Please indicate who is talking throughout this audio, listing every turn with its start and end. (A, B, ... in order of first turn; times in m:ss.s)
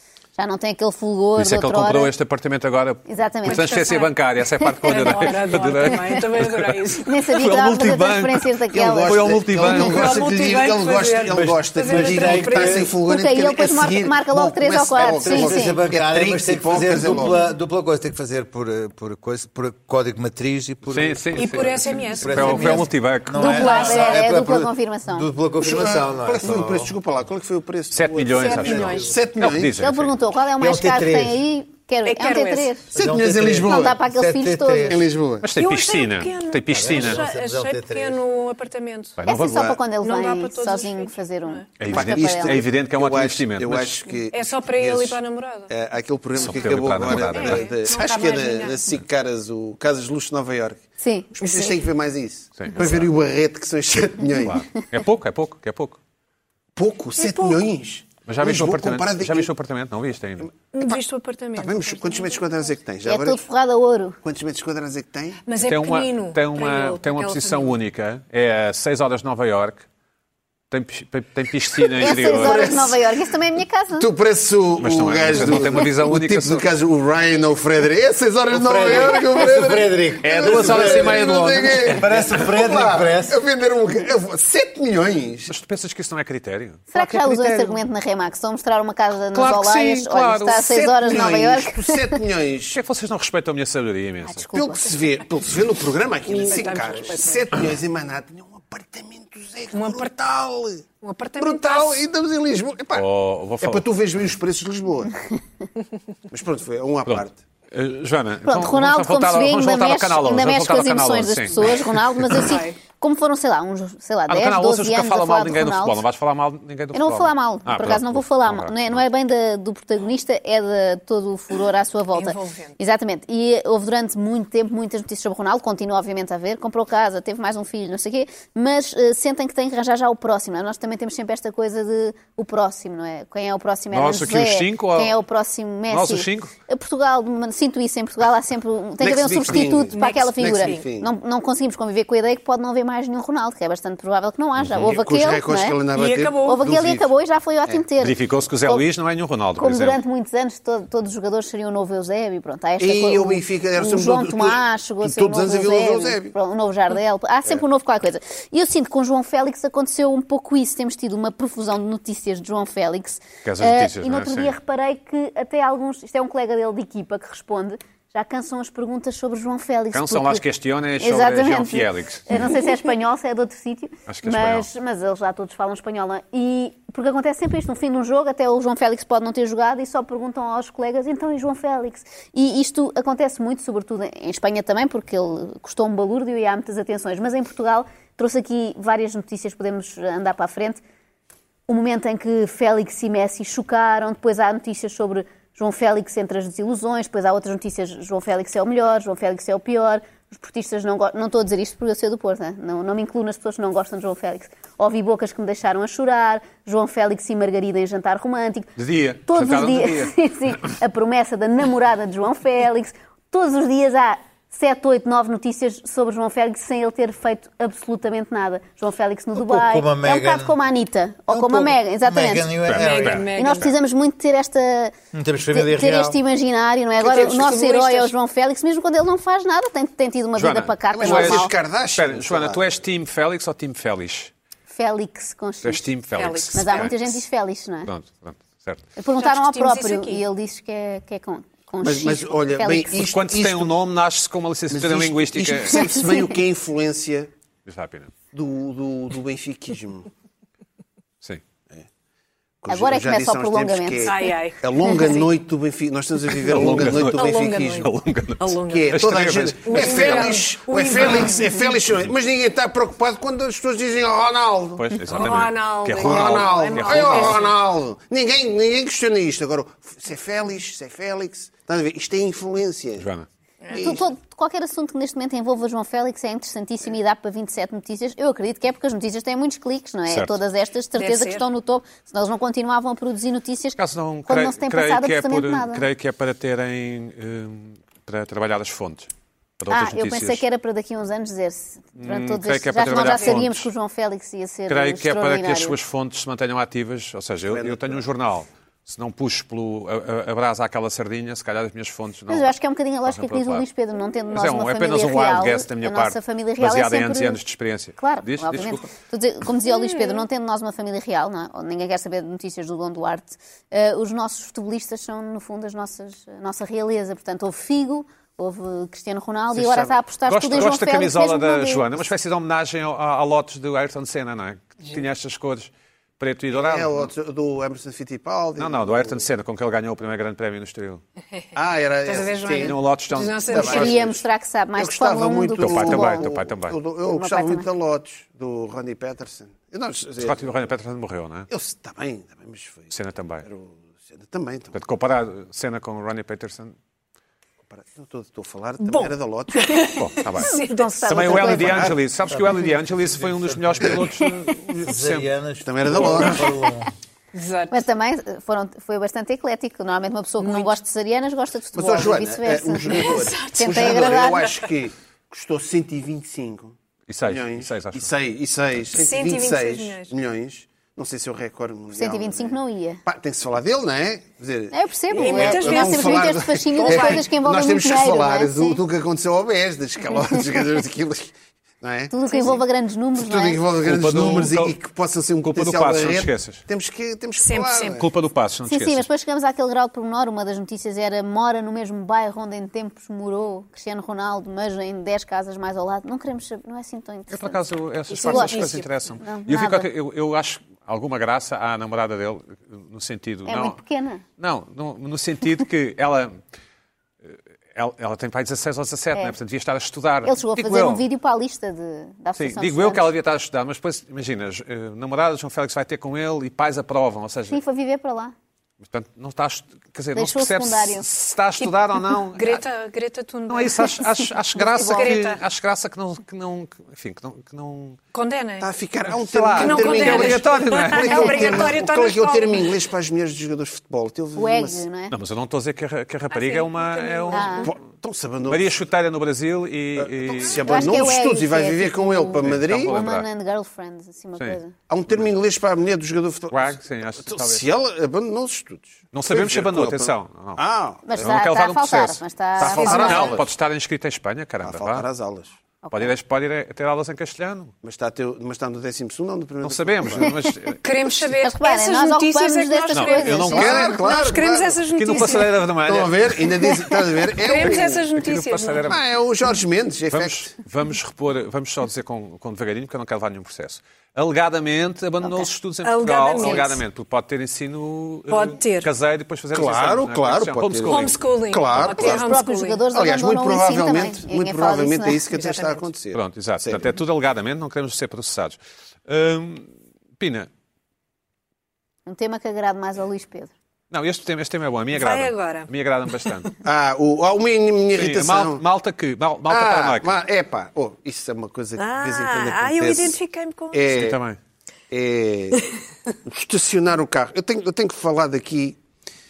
0:00.4-0:02.1 A
0:01.4-0:10.2 B
0:03.0-0:04.0 A
0:03.4-0:04.1 C
0:04.7-0:05.4 A
0:04.8-0:07.1 C
0:07.0-0:09.4 A
0:08.7-0:17.4 D
0:09.6-0:12.9 C
0:11.3-0:12.9 E
0:13.0-0:15.8 A
0:15.0-0:26.9 E
0:20.9-0:23.9 B
0:21.4-0:22.8 C
0:23.4-0:24.3 C
0:23.4-0:25.3 A
0:25.6-0:29.8 D
0:27.9-0:30.1 B
0:28.3-0:29.2 C
0:29.8-0:32.9 A
0:30.6-0:31.4 E
0:32.0-0:32.7 C
0:32.9-0:34.0 D
0:32.9-0:35.0 E
0:33.6-0:35.0 A
0:34.9-0:35.5 D
0:35.4-0:37.2 B
0:35.6-0:39.2 C
0:36.7-0:38.2 E
0:39.2-0:39.8 B
0:39.2-0:42.6 A
0:40.0-0:41.6 C
0:41.8-0:44.0 B
0:41.9-0:54.6 D
0:44.3-0:45.7 C
0:46.4-0:47.7 B
0:46.7-0:48.8 C
0:51.0-0:51.6 A
0:51.4-0:51.7 C
0:52.6-0:53.1 B
0:54.4-0:56.0 B
0:56.7-0:59.5 D
0:57.2-0:57.6 C
0:58.2-1:00.5 B
1:00.7-1:02.7 C
1:01.6-1:03.4 D
1:03.0-1:04.2 A
1:04.2-1:05.4 D
1:05.4-1:07.7 C
1:05.6-1:09.8 B
1:10.7-1:12.9 B
1:12.0-1:14.1 A
1:12.0-1:13.0 D
1:14.0-1:25.5 D
1:14.8-1:16.6 B
1:18.5-1:23.4 E
1:20.2-1:22.4 B
1:25.5-1:27.8 B
1:26.9-1:32.2 A
1:29.3-1:30.9 B
1:30.8-1:32.8 D
1:32.7-1:34.4 B
1:34.2-1:34.9 A
1:34.5-1:40.8 D
1:36.3-1:37.5 C
1:39.7-1:40.1 C
1:41.0-1:42.0 C
1:41.4-1:43.1 D
1:42.9-1:43.8 B
1:43.6-1:45.2 D
1:46.3-1:47.4 D
1:47.1-1:51.8 B
1:48.4-1:56.0 A
1:52.3-1:52.8 C
1:54.3-1:59.0 B
1:56.9-2:25.8 A
2:02.1-2:02.8 C
2:13.9-2:15.2 B
2:15.9-2:16.5 B
2:19.0-2:21.1 D
2:19.9-2:20.8 C
2:24.6-2:24.9 B
2:24.8-2:27.1 D
2:25.9-2:26.6 C
2:26.4-2:28.8 A
2:28.0-2:30.0 B
2:29.6-2:50.4 A
2:32.8-2:36.4 D
2:43.4-2:44.6 B
2:49.9-2:52.5 B
2:51.0-3:10.8 A
2:54.1-2:54.7 B
3:11.7-3:28.7 A
3:28.8-3:30.1 B
3:29.2-3:42.6 A
3:39.4-3:40.6 E
3:41.3-3:43.2 E
3:42.6-3:43.3 B
3:42.7-3:43.7 C
3:43.2-3:45.0 A
3:45.1-3:46.2 E
3:45.5-3:51.5 A
3:47.0-3:48.1 C
3:50.3-3:54.3 B
3:50.9-3:52.7 D
3:54.7-3:55.9 A
3:55.6-3:57.1 B
3:56.1-3:56.9 C
3:56.5-3:57.9 A
3:57.8-3:58.8 B
3:59.0-4:03.0 A
3:59.2-4:00.2 C
4:01.8-4:03.7 D
4:02.9-4:05.9 B
4:04.7-4:07.3 D
4:07.6-4:08.1 B
4:08.3-4:10.1 D
4:12.6-4:17.9 D
4:12.7-4:14.3 A
4:14.0-4:15.3 C
4:16.4-4:20.4 B
4:17.1-4:18.9 C
4:18.6-4:24.9 D
4:19.6-4:21.7 C
4:24.8-4:27.4 B
4:25.1-4:27.5 C
4:26.0-4:33.1 D
4:33.0-4:33.3 B
4:33.7-4:34.1 D
4:33.8-4:45.9 A
4:40.1-4:40.4 B
4:40.9-4:41.4 C
4:43.8-4:50.4 B
4:49.7-4:55.8 A
4:52.0-4:53.7 B
4:54.7-5:02.5 B
4:57.5-4:58.0 D
5:02.3-5:07.4 A
5:03.0-5:03.7 B
5:04.3-5:08.9 B
5:08.0-5:21.9 A
5:09.7-5:10.2 C
5:19.6-5:27.1 B
5:26.5-5:29.2 D
5:28.6-5:31.0 B
5:31.5-5:32.8 D
5:32.0-5:34.0 C
5:32.6-5:33.8 B
5:33.4-5:40.4 D
5:33.6-5:36.3 A
5:35.6-5:36.8 B
5:37.1-5:37.7 A
5:40.2-5:41.5 B
5:41.5-5:42.9 D
5:42.9-5:43.4 B
5:43.4-5:44.8 D
5:44.7-5:46.8 B
5:47.7-5:49.9 D
5:48.8-5:51.8 C
5:50.0-5:55.3 B
5:50.4-5:51.9 A
5:51.3-5:52.0 D
5:52.3-5:56.9 E
5:55.6-5:56.5 D
5:55.9-5:56.3 B
5:57.3-5:57.8 C
5:57.7-6:04.5 A
6:00.4-6:00.7 C
6:01.7-6:22.6 D
6:02.9-6:04.6 C
6:07.1-6:08.1 B
6:08.9-6:10.1 C
6:11.9-6:13.0 A
6:14.7-6:18.8 A
6:15.1-6:17.3 C
6:22.1-6:23.6 A
6:23.2-6:28.1 D
6:23.8-6:24.8 B
6:25.4-6:26.6 B
6:27.4-6:28.0 C
6:27.9-6:29.1 B
6:28.7-6:37.6 A
6:37.3-6:43.8 B
6:38.1-6:38.9 C
6:38.2-6:39.9 A
6:43.4-6:44.2 A
6:44.4-6:46.4 B
6:47.2-6:51.0 B
6:50.2-6:53.1 A
6:52.4-6:57.6 B
6:57.5-6:58.3 A
6:58.8-7:02.6 B
7:00.1-7:01.1 A
7:01.6-7:05.4 C
7:03.5-7:08.0 B
7:08.1-7:08.7 C
7:08.6-7:14.8 D
7:09.1-7:11.7 B
7:09.6-7:12.8 C
7:11.1-7:11.5 A
7:14.4-7:15.1 A
7:15.1-7:17.7 B
7:16.3-7:17.7 C
7:17.3-7:17.7 A
7:17.6-7:18.8 D
7:18.5-7:21.2 B
7:20.0-7:22.9 D
7:20.6-7:24.7 A
7:22.4-7:23.3 B
7:24.4-7:25.3 B
7:24.9-7:31.2 D
7:26.5-7:27.7 B
7:29.1-7:35.1 B
7:31.1-7:33.4 A
7:32.6-7:33.4 D
7:34.6-7:35.5 D
7:35.8-7:36.1 A
7:35.9-7:37.7 B
7:37.8-7:40.3 D
7:39.6-7:40.8 B
7:40.8-7:45.6 C
7:41.4-7:44.2 A
7:42.9-7:44.0 B
7:43.5-7:48.1 D
7:44.9-7:46.4 B
7:47.3-7:48.9 C
7:48.1-7:49.0 B
7:48.8-7:50.5 D
7:50.1-8:01.2 B
7:55.8-7:56.8 C
7:56.4-7:56.6 A
7:58.3-7:58.9 C
7:59.5-8:06.9 D
8:00.8-8:02.8 C
8:01.7-8:02.0 B
8:02.0-8:05.3 A
8:05.3-8:05.9 C
8:06.1-8:10.5 B
8:12.0-8:13.5 A
8:13.9-8:16.5 B
8:14.9-8:15.7 C
8:16.6-8:18.6 D
8:17.9-8:20.1 B
8:19.5-8:23.2 D
8:21.8-8:23.8 C
8:23.7-8:24.2 D
8:23.9-8:24.4 B
8:24.9-8:25.6 D
8:26.2-8:28.8 D